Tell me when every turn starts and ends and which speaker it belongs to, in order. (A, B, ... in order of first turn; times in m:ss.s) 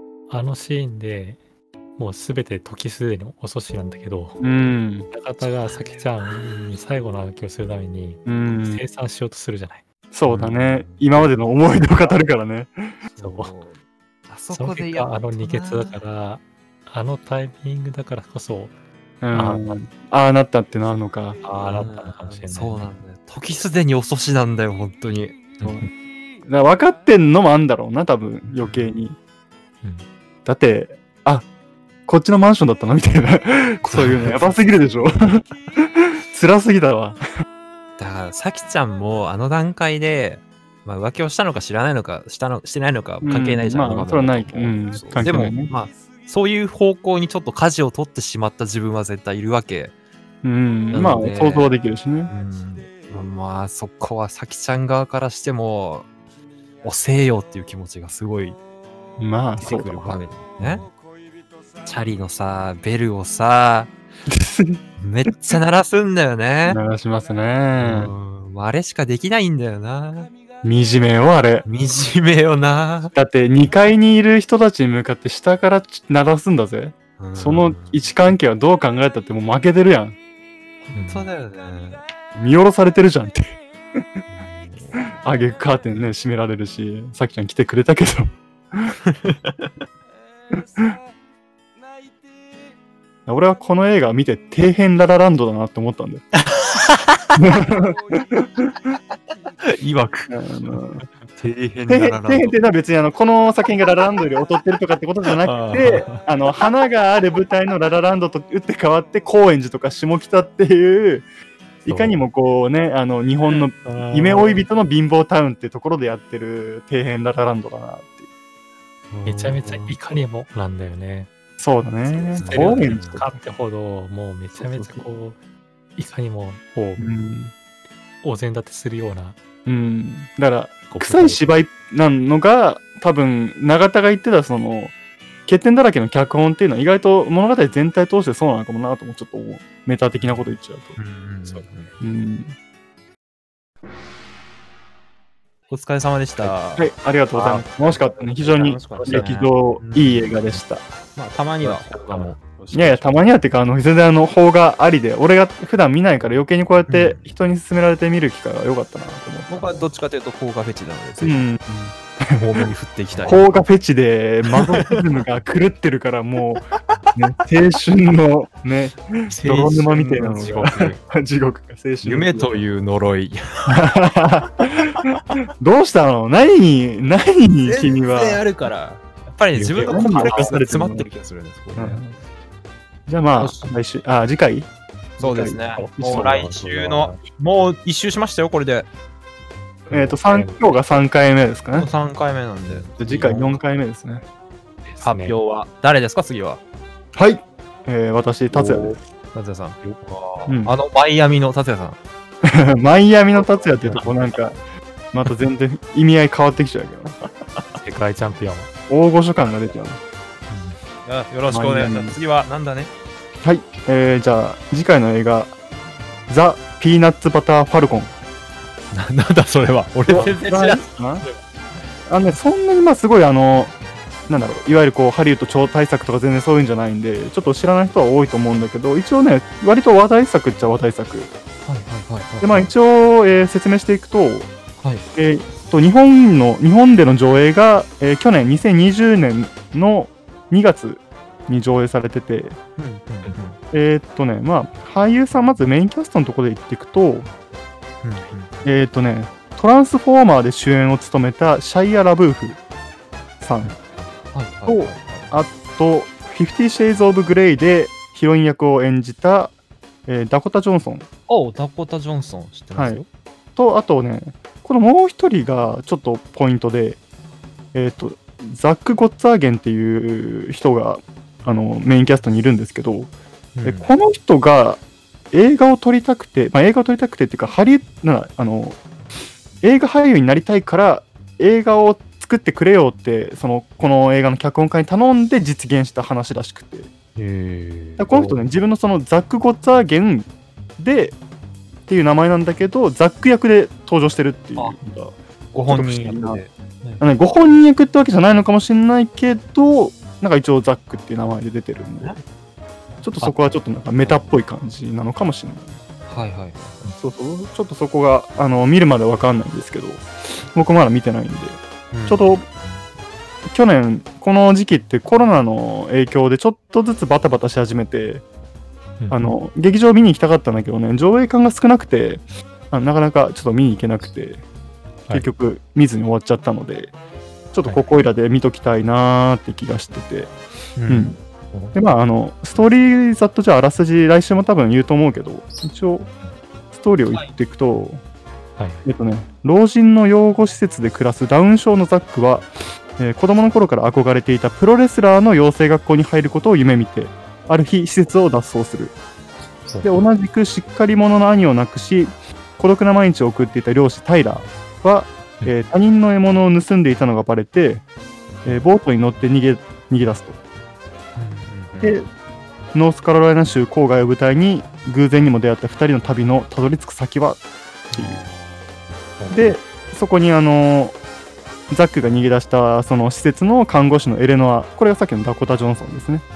0:00.3-0:01.4 A
0:02.0-0:04.4 A
0:04.4-0:05.1 B
0:05.1-0:09.8 A
0:08.3-0:08.8 B
0:10.1-0:13.0 B
0:10.3-0:11.3 C
0:13.1-0:16.0 C
0:13.2-0:13.6 A
0:14.5-0:18.8 A
0:19.2-0:21.4 B
0:19.3-0:19.7 A
0:21.4-0:22.9 A
0:21.6-0:25.4 C
0:25.6-0:25.9 A
0:26.4-0:29.2 B
0:28.5-0:28.9 C
0:29.8-0:30.1 A
0:30.4-0:31.5 B
0:32.1-0:37.2 B
0:33.9-0:34.5 C
0:38.0-0:49.9 C
0:43.2-0:45.7 B
0:50.4-0:52.3 B
0:50.9-0:51.7 C
0:52.3-0:56.1 C
0:56.8-0:58.6 C
0:59.2-1:00.2 B
0:59.6-1:00.9 C
1:01.8-1:03.9 C
1:04.3-1:04.8 B
1:05.0-1:06.8 C
1:06.7-1:08.1 B
1:07.8-1:10.3 C
1:10.6-1:11.6 B
1:11.6-1:13.2 C
1:13.1-1:20.2 B
1:17.2-1:18.1 C
1:20.8-1:22.0 C
1:21.0-1:21.3 A
1:22.4-1:24.0 B
1:24.3-1:25.2 C
1:25.1-1:29.0 B
1:29.0-1:29.7 C
1:30.5-1:31.0 B
1:33.3-1:36.3 B
1:36.3-1:37.4 C
1:37.4-1:39.0 B
1:39.6-1:40.8 C
1:40.3-1:41.0 B
1:41.4-1:42.6 C
1:41.9-1:51.3 B
1:45.3-1:46.3 C
1:51.9-1:52.2 A
1:51.9-1:58.3 B
1:53.4-1:54.6 C
1:59.1-2:00.0 C
1:59.3-2:01.3 A
2:01.6-2:03.4 B
2:02.1-2:05.4 A
2:02.4-2:03.2 C
2:04.6-2:05.0 B
2:06.0-2:07.1 A
2:07.0-2:07.5 B
2:08.2-2:09.4 A
2:09.7-2:14.9 B
2:10.9-2:11.5 A
2:15.5-2:21.0 B
2:21.0-2:21.9 C
2:21.5-2:22.0 A
2:22.0-2:22.6 B
2:25.7-2:30.4 C
2:26.8-2:30.8 B
2:29.0-2:29.3 A
2:31.2-2:33.3 C
2:31.6-2:32.4 A
2:32.7-2:39.5 B
2:36.9-2:37.3 C
2:39.5-2:41.5 C
2:41.2-2:42.7 B
2:42.4-2:43.5 C
2:43.2-2:52.6 B
2:44.5-2:45.0 C
2:49.3-2:51.0 C
2:50.4-2:51.0 A
2:52.0-2:53.9 C
2:53.7-2:58.4 B
2:54.9-2:55.4 C
2:57.6-3:02.0 C
2:59.6-3:01.1 B
3:00.2-3:00.6 A
3:01.8-3:02.2 B
3:03.1-3:04.7 B
3:03.4-3:03.7 C
3:05.2-3:06.3 B
3:05.2-3:08.9 C
3:05.8-3:07.3 A
3:09.9-3:10.9 A
3:09.9-3:11.9 B
3:11.7-3:13.6 C
3:13.0-3:14.2 B
3:14.8-3:15.4 A
3:15.0-3:16.6 C
3:17.2-3:19.0 B
3:18.5-3:22.0 C
3:20.5-3:20.7 B
3:22.4-3:24.6 B
3:23.9-3:24.1 A
3:25.1-3:27.2 B
3:27.8-3:28.7 A
3:28.9-3:30.0 B
3:30.5-3:30.8 A
3:31.0-3:32.9 C
3:31.5-3:32.2 B
3:33.4-3:35.5 B
3:36.3-3:38.1 B
3:38.9-3:40.9 C
3:40.1-3:41.3 B
3:40.1-3:40.4 A
3:42.1-3:43.7 B
3:44.3-3:51.3 B
3:51.7-3:52.7 C
3:52.4-3:54.5 B
3:55.2-4:02.6 B
4:02.8-4:03.6 C
4:03.7-4:07.3 B
4:08.0-4:08.6 C
4:08.6-4:12.6 B
4:13.4-4:13.7 B
4:14.3-4:15.4 C
4:14.7-4:19.6 B
4:20.1-4:21.1 B
4:21.3-4:23.1 C
4:22.8-4:23.0 B
4:23.6-4:27.0 B
4:27.7-4:33.1 B
4:33.6-4:33.9 C
4:33.6-4:38.8 B
4:39.6-4:46.9 B
4:47.2-4:48.4 C
4:48.0-4:51.2 B
4:51.9-4:55.1 B
4:55.5-4:57.0 C
4:55.7-4:56.4 B
4:57.0-5:02.2 B
5:03.0-5:05.8 B
5:03.2-5:04.3 C
5:06.1-5:06.8 C
5:07.0-5:12.4 B
5:11.9-5:12.4 C
5:12.6-5:12.9 A
5:13.5-5:18.2 B
5:19.0-5:19.4 A
5:19.1-5:24.4 B
5:25.1-5:26.9 B
5:27.5-5:30.3 B
5:27.6-5:27.9 A
5:30.8-5:31.2 C
5:30.9-5:31.2 B
5:31.5-5:31.8 A
5:31.8-5:36.1 B
5:36.7-5:38.0 B
5:38.6-5:38.9 A
5:38.8-5:49.0 B
5:49.7-5:50.1 A
5:49.8-5:57.8 B
5:58.5-6:00.4 B
6:01.2-6:02.0 C
6:01.8-6:02.1 B
6:02.7-6:07.4 B
6:07.9-6:08.2 B
6:08.0-6:08.5 C
6:09.2-6:09.6 A
6:09.3-6:11.0 B
6:11.7-6:16.2 B